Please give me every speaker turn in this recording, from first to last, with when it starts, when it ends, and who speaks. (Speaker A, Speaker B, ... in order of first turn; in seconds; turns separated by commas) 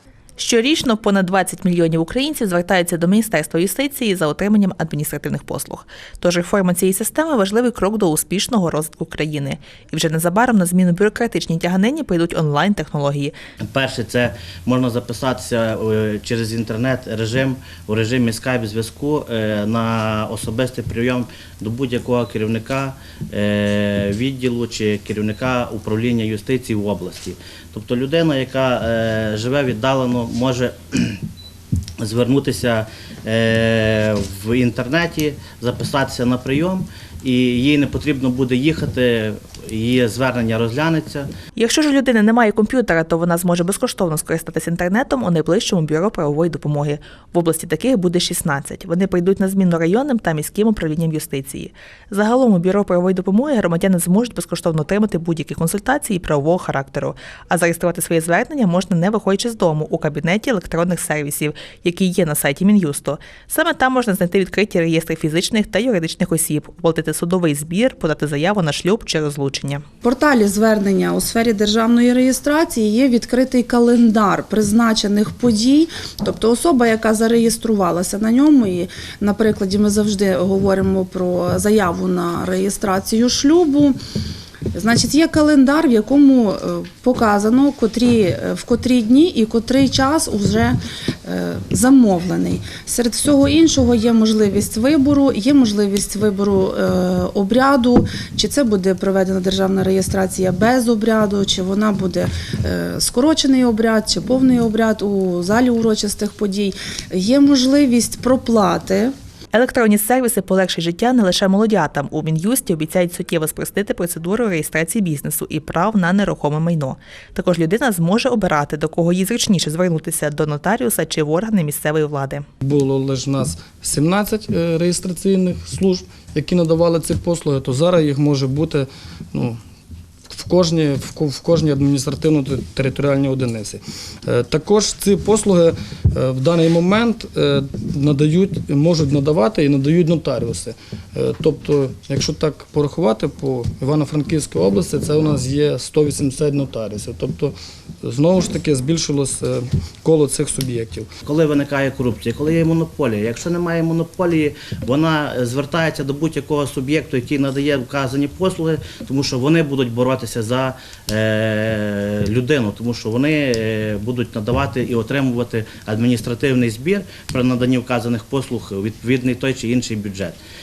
Speaker A: 0.4-13.3, Speaker B: 13.7-31.2, Speaker B: 32.0-41.3, Speaker A: 41.6-69.8, Speaker C: 70.0-84.0, Speaker C: 84.7-109.1, Speaker A: 109.5-122.4, Speaker D: 122.6-129.6, Speaker D: 130.3-151.1, Speaker B: 151.2-170.4